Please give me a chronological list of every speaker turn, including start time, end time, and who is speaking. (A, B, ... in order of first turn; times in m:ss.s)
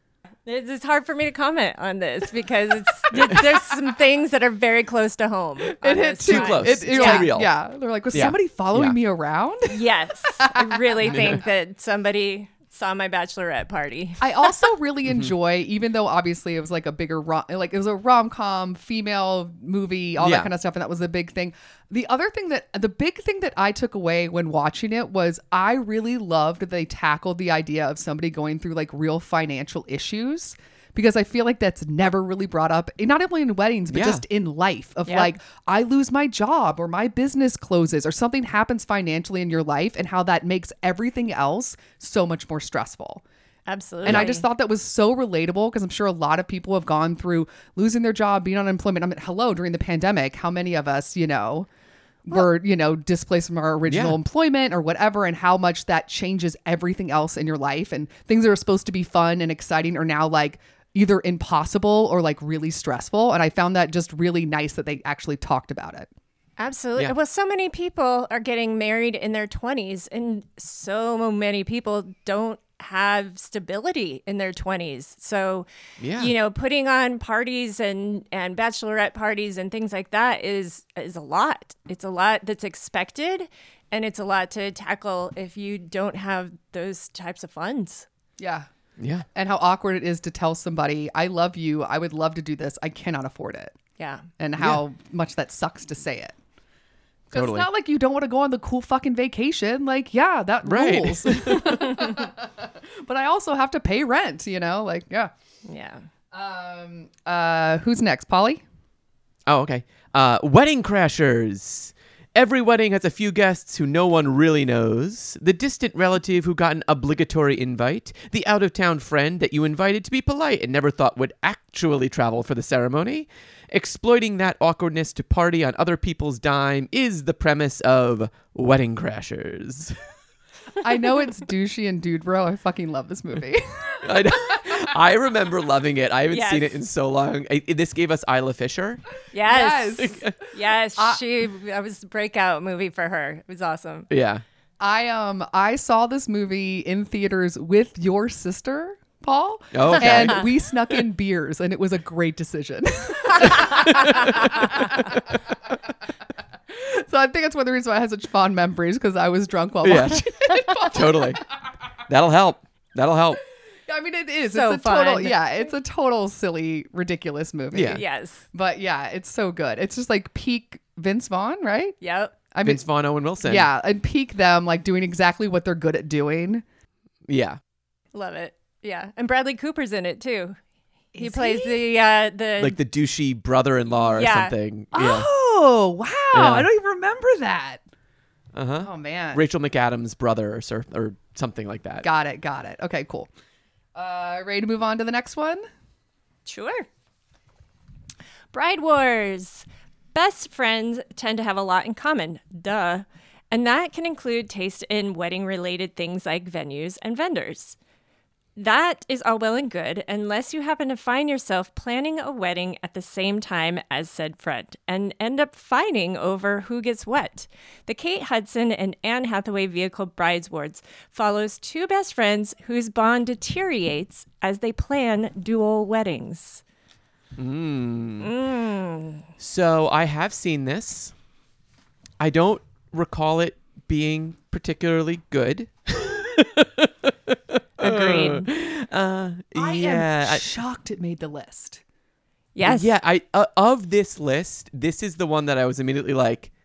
0:00.4-0:07.3 A
0:05.8-0:09.8 B
0:06.2-0:07.5 C
0:08.1-0:09.0 C
0:09.7-0:14.7 A
0:10.4-0:11.3 B
0:11.0-0:11.4 C
0:14.2-0:43.2 B
0:15.1-0:15.3 C
0:20.2-0:20.5 C
0:33.9-0:34.2 C
0:35.1-0:35.3 A
0:43.7-0:44.4 A
0:44.0-0:51.7 B
0:52.2-1:06.1 B
0:53.9-0:54.2 C
1:06.6-1:28.0 A
1:16.0-1:16.3 C
1:28.4-1:28.7 B
1:29.0-1:29.2 C
1:29.3-1:33.7 B
1:34.0-1:34.2 A
1:34.4-1:36.4 B
1:37.3-1:45.3 B
1:37.3-1:37.7 C
1:40.6-1:41.8 C
1:45.6-1:46.0 A
1:46.3-1:48.6 B
1:49.4-2:10.0 C
2:10.8-2:14.8 B
2:14.0-2:19.0 C
2:16.3-2:16.8 A
2:19.3-2:24.1 A
2:19.4-2:21.2 B
2:20.0-2:20.3 C
2:24.1-2:24.4 C
2:24.8-2:35.4 B
2:29.7-2:30.4 C
2:30.0-2:30.3 A
2:36.7-2:41.4 B
2:39.8-2:41.4 C
2:42.1-2:43.4 C
2:43.9-2:52.0 B
2:44.5-2:45.4 A
2:47.7-2:48.0 C
2:47.9-2:48.4 A
2:52.0-2:52.3 A
2:52.5-2:52.8 B
2:52.6-2:53.7 C
2:53.4-2:56.6 B
2:57.2-2:57.6 C
2:58.1-3:00.6 A
3:01.1-3:01.8 B
3:01.2-3:02.8 A
3:02.6-3:05.3 C
3:04.1-3:04.5 A
3:04.9-3:07.8 B
3:06.3-3:06.7 C
3:08.5-3:12.1 C
3:08.8-3:09.4 B
3:12.0-3:13.3 B
3:13.9-3:15.6 B
3:16.4-3:16.9 A
3:18.5-3:27.8 A
3:28.6-3:46.6 A
3:47.4-3:48.3 C
3:48.2-3:49.3 A
3:49.4-3:51.1 C
3:52.2-4:00.4 C
3:57.8-3:58.5 A
3:59.5-4:01.8 B
4:02.5-4:02.9 A
4:02.6-4:06.5 C